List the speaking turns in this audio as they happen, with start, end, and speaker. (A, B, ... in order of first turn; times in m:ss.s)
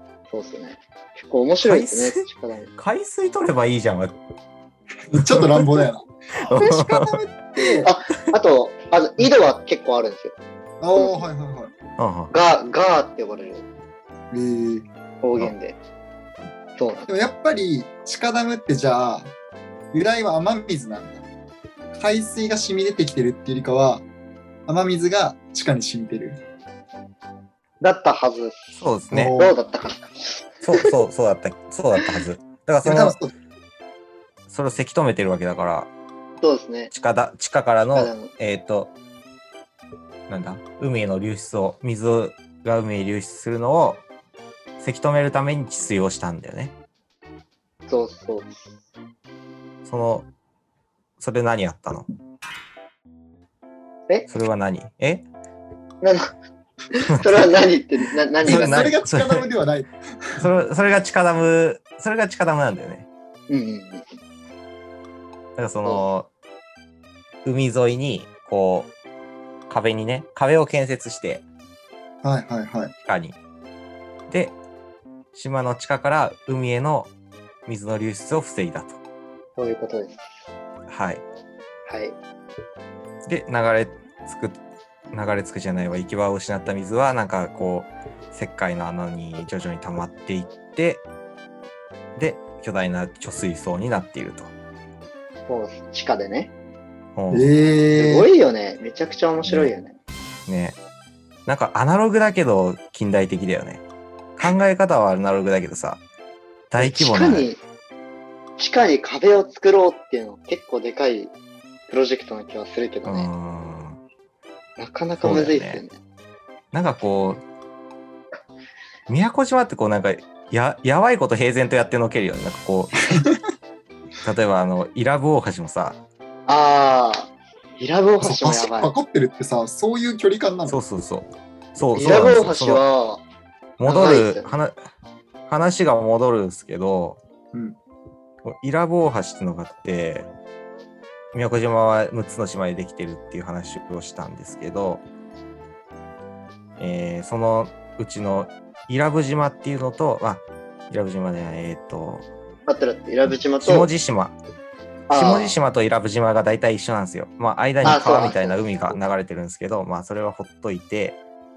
0:00.3-0:02.7 A
0:01.6-0:02.2 B
0:02.8-0:04.2 B
0:05.1-0:07.9 C
0:05.1-0:05.9 B
0:06.4-0:07.2 B
0:07.8-0:10.4 A
0:10.8-0:11.7 C
0:11.0-0:11.3 A
0:12.0-0:12.3 B
0:12.3-0:13.7 A
0:14.3-0:14.9 C
0:15.2-0:15.8 A
0:16.8-0:17.1 A
0:17.1-0:19.3 C
0:19.9-0:21.2 C
0:21.9-0:24.0 C
0:24.7-0:26.4 C
0:27.8-0:28.8 A
0:28.8-0:29.4 B
0:29.1-0:29.6 C
0:29.3-0:30.9 A
0:30.6-0:33.2 B
0:32.8-0:33.3 C
0:34.5-0:35.9 B
0:36.4-0:36.9 A
0:36.9-0:38.9 B
0:38.0-0:38.3 A
0:40.3-0:44.0 B
0:44.8-0:46.7 B
0:47.9-0:48.7 A
0:49.9-0:50.3 B
0:51.2-0:52.1 B
0:54.3-0:55.2 B
0:56.0-0:56.4 A
0:56.9-0:58.9 A
0:58.4-1:00.4 C
0:58.5-0:59.5 B
1:00.4-1:03.1 B
1:03.5-1:04.1 A
1:05.6-1:06.3 B
1:07.4-1:08.9 B
1:09.7-1:11.4 B
1:12.2-1:12.9 C
1:13.0-1:13.4 B
1:14.3-1:14.6 B
1:15.3-1:17.1 B
1:17.7-1:19.0 B
1:19.6-1:20.2 A
1:20.9-1:21.2 B
1:21.9-1:22.2 A
1:23.3-1:24.6 B
1:25.1-1:31.0 B
1:32.2-1:34.5 B
1:35.5-1:36.5 A
1:37.2-1:37.5 B
1:37.3-1:38.3 C
1:37.9-1:40.0 A
1:39.4-1:39.7 B
1:40.5-1:40.8 B
1:41.5-1:43.8 B
1:44.4-1:46.0 B
1:46.7-1:47.5 B
1:46.8-1:47.6 A
1:48.6-1:51.3 A
1:51.9-1:53.3 A
1:53.0-1:54.0 B
1:54.8-1:56.0 A
1:55.2-1:55.8 B
1:56.7-1:57.4 B
1:59.1-2:03.2 B
2:04.2-2:06.0 B
2:06.5-2:08.9 A
2:08.2-2:10.8 C
2:10.7-2:12.8 B
2:12.0-2:13.2 A
2:13.8-2:14.7 B
2:13.8-2:14.5 A
2:15.5-2:17.2 B
2:18.4-2:20.3 B
2:21.3-2:25.0 B
2:26.8-2:32.3 B
2:32.7-2:33.9 A
2:33.6-2:34.4 B
2:35.1-2:35.6 A
2:35.1-2:41.2 B
2:37.8-2:38.6 A